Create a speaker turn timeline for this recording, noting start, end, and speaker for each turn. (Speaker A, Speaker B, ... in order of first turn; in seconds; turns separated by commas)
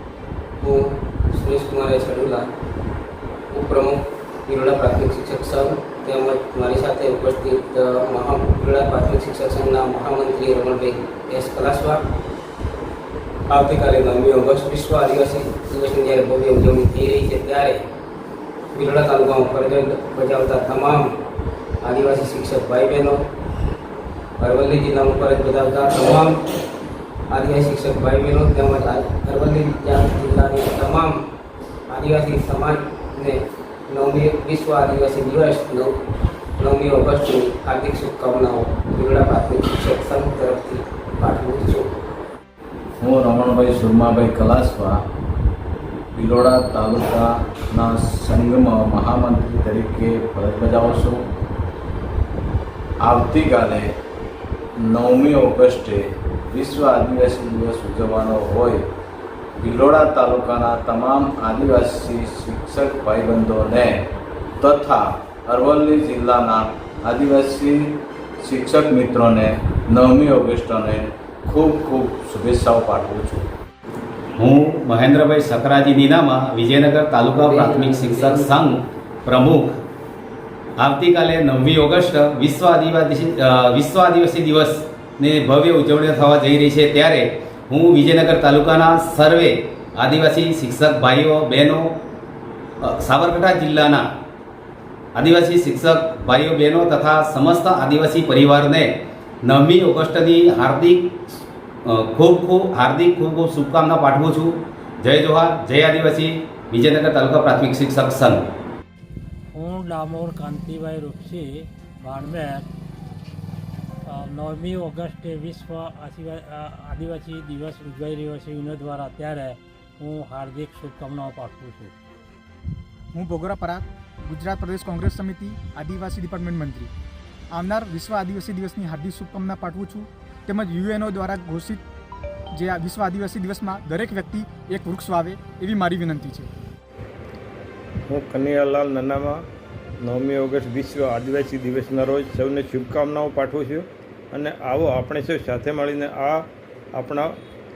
Speaker A: 0.6-2.5, Speaker A: 3.5-12.0, Speaker A: 13.5-17.8, Speaker A: 18.7-21.1, Speaker A: 21.8-23.2, Speaker A: 24.4-26.4, Speaker A: 27.3-31.2, Speaker A: 31.9-35.9, Speaker A: 36.6-42.0, Speaker B: 43.0-45.0, Speaker B: 46.1-51.2, Speaker B: 53.0-53.9, Speaker B: 54.8-58.9, Speaker B: 59.6-73.5, Speaker C: 74.4-79.8, Speaker A: 77.4-78.5, Speaker C: 80.8-91.9, Speaker C: 92.8-94.0, Speaker C: 95.2-98.9, Speaker C: 99.4-101.1, Speaker C: 101.8-108.4, Speaker D: 109.5-112.7, Speaker D: 114.1-121.9, Speaker E: 123.1-126.9, Speaker E: 127.5-131.8, Speaker E: 132.5-136.5, Speaker F: 138.1-139.4, Speaker F: 140.0-147.4